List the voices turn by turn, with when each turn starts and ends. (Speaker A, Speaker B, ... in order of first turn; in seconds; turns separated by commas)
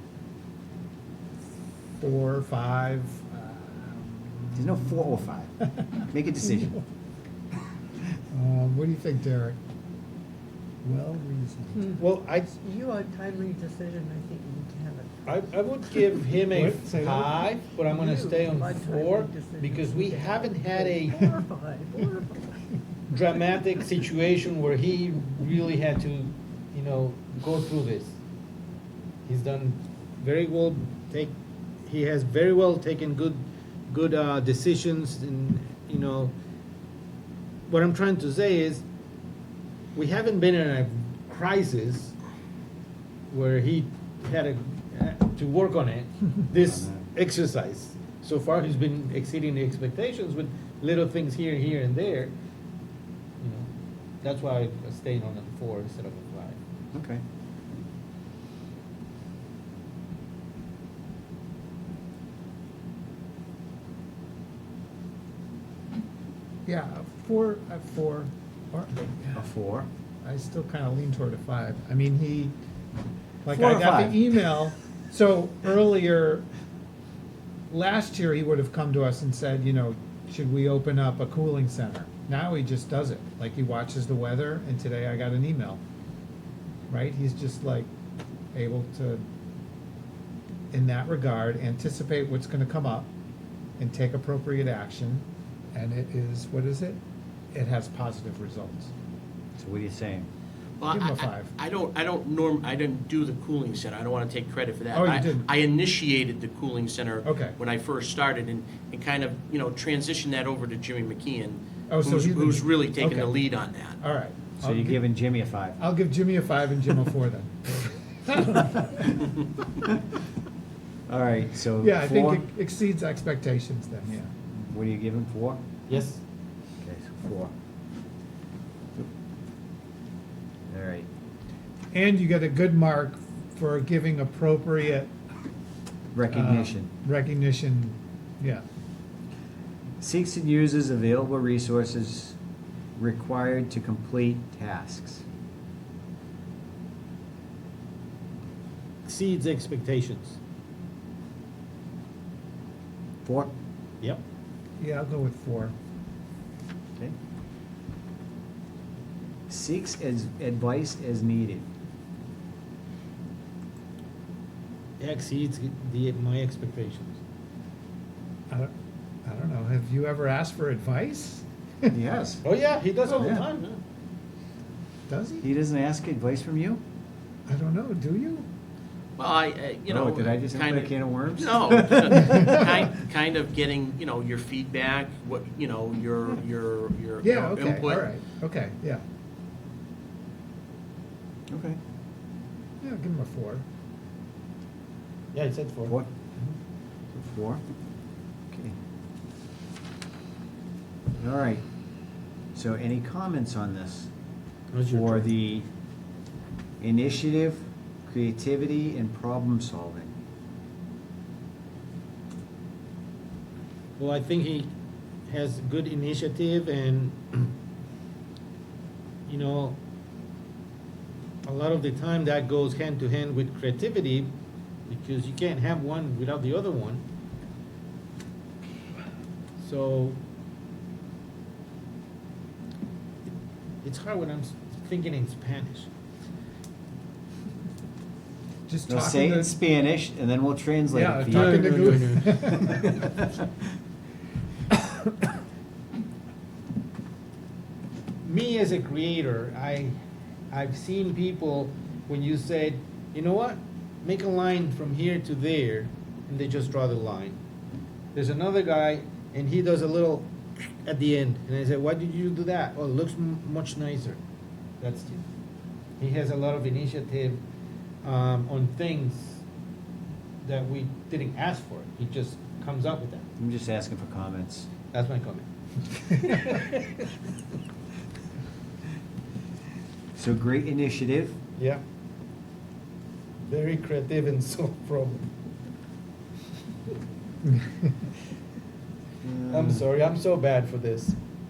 Speaker A: 2.0-5.1, Speaker B: 4.5-5.5, Speaker A: 5.8-6.8, Speaker B: 6.1-6.8, Speaker A: 8.3-9.6, Speaker A: 10.8-12.0, Speaker C: 11.7-15.3, Speaker D: 12.0-12.5, Speaker D: 15.3-21.3, Speaker A: 16.5-17.4, Speaker C: 17.9-22.5, Speaker D: 23.1-28.2, Speaker D: 29.3-36.3, Speaker D: 37.7-38.8, Speaker D: 40.0-42.1, Speaker D: 43.3-52.3, Speaker B: 46.6-47.0, Speaker D: 53.4-53.7, Speaker D: 54.2-56.6, Speaker B: 56.9-57.2, Speaker A: 66.7-69.4, Speaker B: 69.3-69.9, Speaker A: 70.2-72.5, Speaker A: 73.4-76.5, Speaker B: 73.5-74.4, Speaker A: 77.7-85.8, Speaker A: 86.9-87.9, Speaker A: 88.5-89.2, Speaker A: 90.7-93.1, Speaker A: 93.8-97.0, Speaker A: 97.5-98.9, Speaker B: 99.6-100.3, Speaker E: 100.8-114.0, Speaker A: 100.9-101.5, Speaker A: 104.9-105.5, Speaker A: 107.2-107.6, Speaker A: 111.9-115.0, Speaker B: 114.6-115.8, Speaker A: 115.8-119.2, Speaker B: 121.1-122.5, Speaker A: 121.8-124.3, Speaker B: 124.5-125.6, Speaker D: 125.9-126.2, Speaker B: 126.8-127.5, Speaker B: 130.7-131.1, Speaker A: 131.9-135.1, Speaker B: 136.1-136.9, Speaker A: 136.3-138.6, Speaker B: 140.0-142.4, Speaker B: 143.0-145.2, Speaker D: 149.1-150.4, Speaker B: 153.2-153.5, Speaker A: 154.8-155.8, Speaker B: 159.5-161.7, Speaker D: 165.0-167.2, Speaker A: 169.2-171.9, Speaker B: 171.9-172.4, Speaker D: 172.4-173.8, Speaker B: 173.2-173.5, Speaker A: 175.1-175.5, Speaker B: 175.4-176.8, Speaker A: 177.5-178.5, Speaker E: 179.2-188.1, Speaker B: 179.9-182.6, Speaker A: 187.2-189.0, Speaker B: 191.5-191.8, Speaker A: 192.8-193.7, Speaker D: 195.3-196.0, Speaker B: 197.1-197.6, Speaker B: 198.5-198.8, Speaker B: 201.2-201.6, Speaker B: 202.5-204.1, Speaker D: 204.7-205.3, Speaker B: 204.9-205.7, Speaker B: 206.8-210.1, Speaker D: 214.0-214.7, Speaker D: 215.3-217.5, Speaker D: 219.3-219.8, Speaker D: 221.4-224.3, Speaker D: 224.9-227.0, Speaker D: 229.6-230.2, Speaker D: 233.8-235.9, Speaker A: 238.7-239.6, Speaker B: 238.9-243.4, Speaker A: 240.9-242.9, Speaker D: 241.3-242.3, Speaker D: 248.2-250.0, Speaker D: 250.5-257.4, Speaker D: 258.1-264.2, Speaker D: 264.8-265.3, Speaker D: 266.0-267.4, Speaker D: 268.0-269.4, Speaker D: 270.4-273.3, Speaker B: 273.4-274.7, Speaker D: 274.9-277.0, Speaker B: 280.1-281.4, Speaker D: 281.6-281.8, Speaker D: 283.5-285.3, Speaker B: 289.2-289.9, Speaker D: 289.5-291.2